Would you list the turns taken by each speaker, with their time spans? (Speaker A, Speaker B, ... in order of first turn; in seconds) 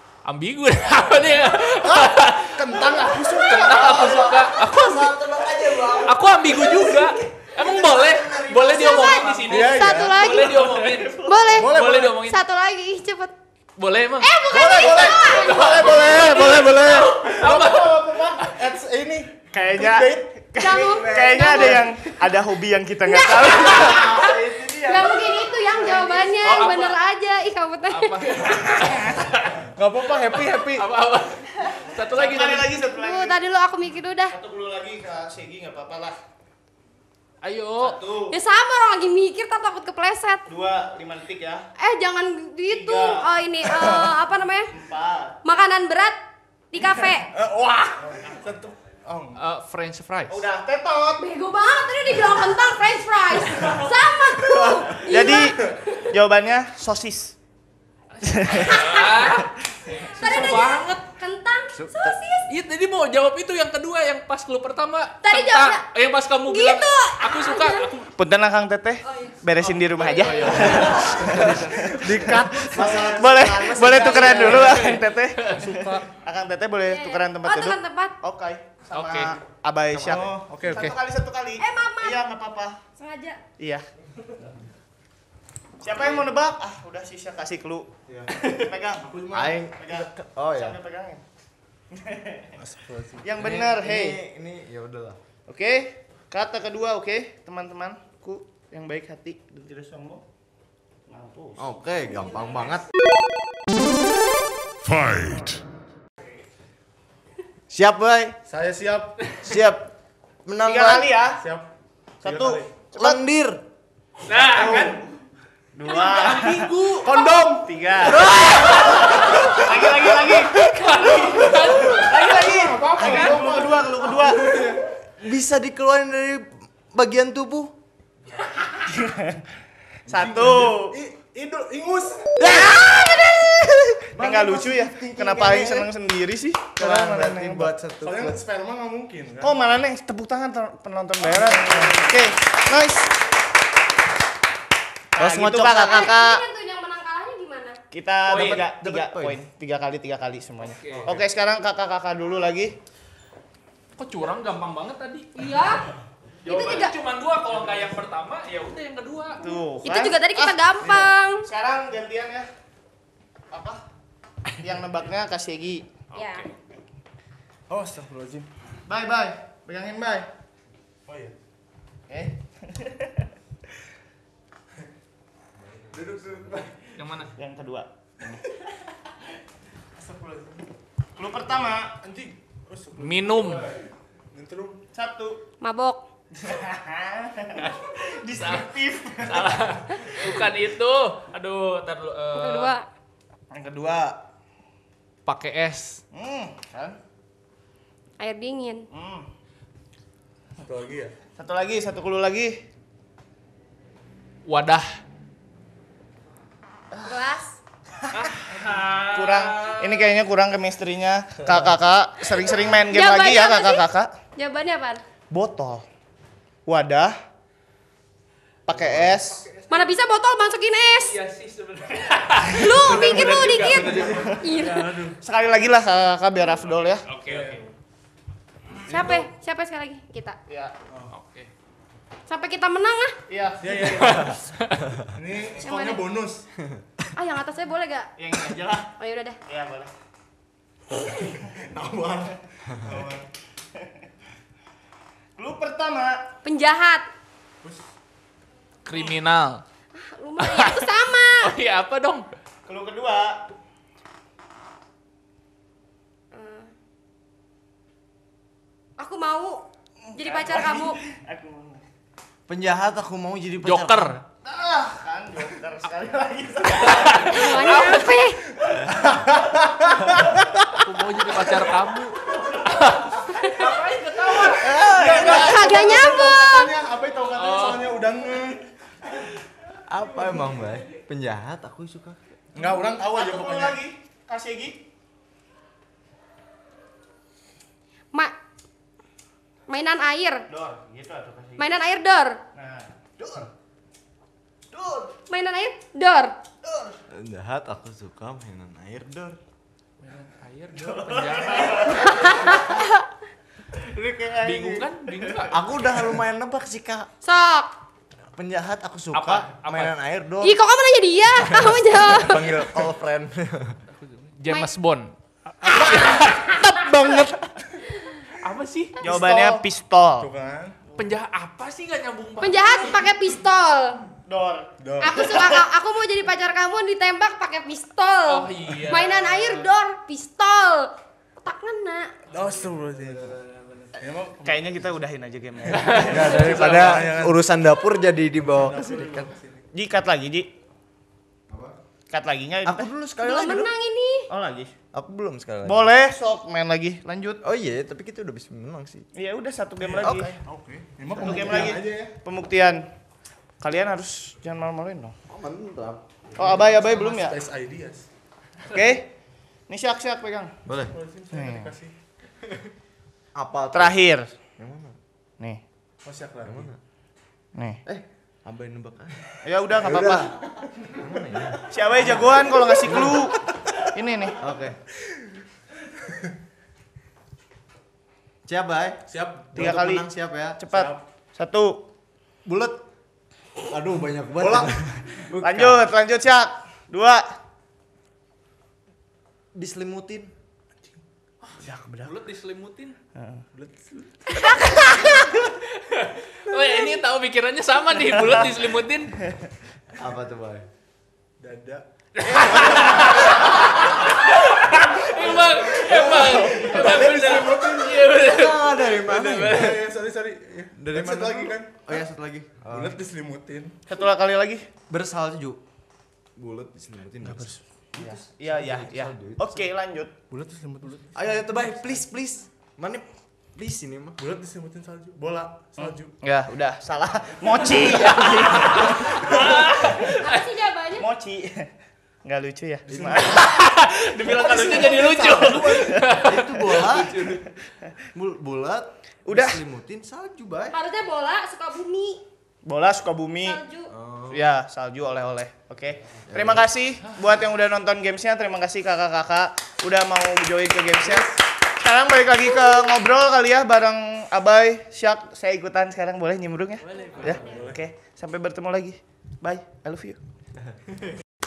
Speaker A: 0.2-5.1, 6.0-12.4, 13.8-18.6, 26.4-26.9, 27.9-29.6, 30.2-32.8, 37.4-38.0, 49.4-50.4, 58.5-61.0, 62.5-68.1, 69.6-72.0, 74.4-75.6, 78.9-79.3, 114.2-115.0, 115.8-117.1, 118.2-119.5, 120.5-122.5, 123.0-123.3, 148.3-148.7, 150.6-151.1, 154.0-155.8, 156.4-159.4, 166.1-166.5, 176.9-177.3, 183.0-183.7, 187.6-192.7, 195.2-196.0, 204.4-205.0, 208.1-210.1, 219.0-219.9, 221.0-224.0, 227.0-227.7, 231.1-231.5, 233.8-234.8, 248.8-249.6, 250.4-252.3, 263.6-264.2, 266.8-268.2, 270.8-274.7, 277.3-278.0, 300.0-302.5, 304.4-305.6, 309.1-309.9, 313.9-316.7, 318.4-319.0, 320.9-323.1, 328.3-329.7, 335.7-336.2, 391.4-393.0, 394.4-399.2, 402.1-409.8, 428.0-430.5, 433.2-437.6, 457.0-457.6
Speaker B: 1.8-4.2, 9.5-10.3, 11.6-12.2, 14.5-20.3, 29.6-30.9, 47.3-49.4, 70.5-73.1, 75.5-76.1, 79.9-80.9, 88.1-88.4, 89.0-89.6, 92.5-93.3, 108.5-109.3, 111.4-111.7, 112.2-112.7, 114.5-115.0, 117.0-117.7, 121.5-124.8, 130.1-132.4, 134.2-134.5, 138.0-139.6, 141.2-142.1, 150.9-151.2, 160.8-161.1, 167.7-168.5, 171.1-171.3, 175.9-176.9, 179.9-180.7, 182.0-184.8, 200.6-201.1, 222.8-225.2, 227.2-227.6, 228.9-229.2, 233.6-234.5, 235.1-236.5, 241.1-243.3, 268.9-269.9, 274.7-278.6, 282.5-283.8, 315.7-317.5, 319.0-319.6, 320.2-320.8, 324.8-325.2, 332.3-333.4, 334.0-334.8, 335.8-337.4, 338.4-339.7, 349.8-352.1, 356.4-358.1, 360.9-361.9, 366.0-366.7, 379.1-379.5, 380.7-381.0, 384.4-384.7, 393.5-394.1, 401.4-403.4, 405.2-408.0, 409.4-411.7, 412.7-413.8, 420.3-421.9, 424.2-426.1, 432.9-433.3, 434.6-435.9, 457.3-457.8
Speaker C: 3.5-9.5, 20.8-21.6, 23.7-25.2, 61.7-62.2, 71.0-71.6, 72.7-74.9, 89.3-90.8, 93.4-95.2, 101.6-102.8, 107.7-108.4, 109.4-109.9, 110.4-111.1, 113.0-113.6, 118.0-119.0, 125.2-127.7, 132.4-135.9, 136.8-138.4, 145.2-146.2, 148.3-149.4, 262.5-264.1, 274.5-275.7, 279.9-282.2, 293.2-293.5, 297.1-299.4, 305.5-307.1, 308.3-310.6, 311.4-313.8, 332.9-333.4, 336.0-339.3, 341.5-341.7, 342.6-343.7, 344.9-345.9, 347.4-349.1, 350.0-350.3, 351.3-351.7, 355.3-356.5, 360.6-360.9, 363.3-363.9, 364.6-365.0, 366.4-366.8, 367.9-370.4, 370.9-373.3, 374.4-374.8, 378.4-380.6, 382.4-382.8, 383.7-385.8, 389.5-390.3, 399.9-400.7, 405.9-409.8, 410.8-413.0, 414.9-415.6, 416.4-419.7, 421.1-424.2, 432.9-433.2, 436.0-437.2, 438.1-440.8, 443.9-444.4, 446.3-446.7
Speaker D: 8.6-10.6, 11.2-13.3, 14.2-16.3, 20.6-21.9, 23.0-28.5, 33.0-34.4, 38.3-40.4, 41.8-44.7, 45.4-46.2, 46.7-47.3, 51.2-55.7, 58.5-59.3, 60.0-62.5, 65.2-65.8, 66.5-67.9, 69.0-69.4, 69.9-71.2, 73.9-74.7, 76.8-78.2, 81.6-82.2, 83.0-83.4, 145.8-147.8, 155.3-155.9, 156.4-156.9, 159.4-161.5, 166.1-166.5, 185.6-186.0, 192.3-192.9, 198.2-198.9, 207.0-207.6, 212.9-215.0, 219.7-221.2, 222.5-225.0, 228.8-230.4, 232.3-233.2, 235.6-236.0, 237.1-238.1, 239.0-239.4, 246.4-247.1, 249.9-251.5, 256.3-256.7, 259.0-261.0, 267.2-268.4, 273.3-273.6, 275.0-276.7, 289.7-290.5, 291.6-292.4, 295.3-296.3, 301.8-303.1, 307.2-307.7, 310.4-312.6, 314.5-314.7, 315.7-316.9, 322.4-324.0, 325.0-332.1, 343.2-344.3, 430.2-431.1, 440.7-442.2, 443.4-443.9
Speaker E: 10.3-11.6, 15.6-16.6, 19.5-24.4, 25.6-26.8, 32.0-33.4, 34.3-36.1, 37.8-38.4, 40.5-41.6, 42.7-44.0, 44.7-45.4, 50.3-51.2, 54.5-57.4, 58.2-59.0, 68.2-82.8, 83.6-83.8, 85.8-89.1, 89.7-91.2, 91.9-92.6, 93.2-94.2, 95.5-100.2, 101.1-101.7, 105.1-105.6, 110.6-111.4, 112.2-113.2, 115.8-116.8, 117.6-118.4, 119.3-124.6, 128.8-129.4, 130.1-131.0, 132.4-133.2, 134.1-137.7, 139.4-143.2, 145.1-146.4, 147.9-152.8, 159.4-160.6, 161.4-162.5, 163.5-163.8, 164.6-165.9, 168.9-170.3, 172.1-173.3, 177.3-178.4, 181.2-181.9, 184.9-185.4, 186.3-190.4, 193.5-194.2, 196.1-197.0, 198.9-199.3, 201.4-202.6, 208.0-208.3, 209.0-214.1, 215.3-215.8, 216.7-217.2, 218.7-219.4, 222.9-224.5, 225.2-227.1, 230.5-230.7, 233.3-234.0, 238.2-238.9, 239.5-239.9, 245.4-246.2, 252.7-253.5, 260.1-261.8, 264.4-267.9, 268.7-268.9, 270.0-270.3, 283.0-284.8, 290.5-291.7, 292.5-292.9, 296.6-296.9, 300.7-302.8, 303.7-305.5, 319.0-320.3, 324.2-325.6, 334.4-337.1, 339.7-340.5, 342.1-342.9, 344.3-344.7, 345.6-347.4, 349.1-350.4, 351.2-352.8, 353.6-355.1, 356.4-357.4, 358.7-359.1, 359.7-360.5, 361.3-361.7, 363.7-364.3, 367.5-367.8, 369.4-370.3, 371.7-374.4, 379.5-380.1, 380.6-381.9, 385.4-387.2, 391.6-392.1, 393.1-393.4, 413.9-414.7, 417.2-420.1, 425.8-429.8, 431.0-431.7, 432.2-433.6, 434.2-436.2, 439.2-439.6, 442.6-443.6, 444.3-460.2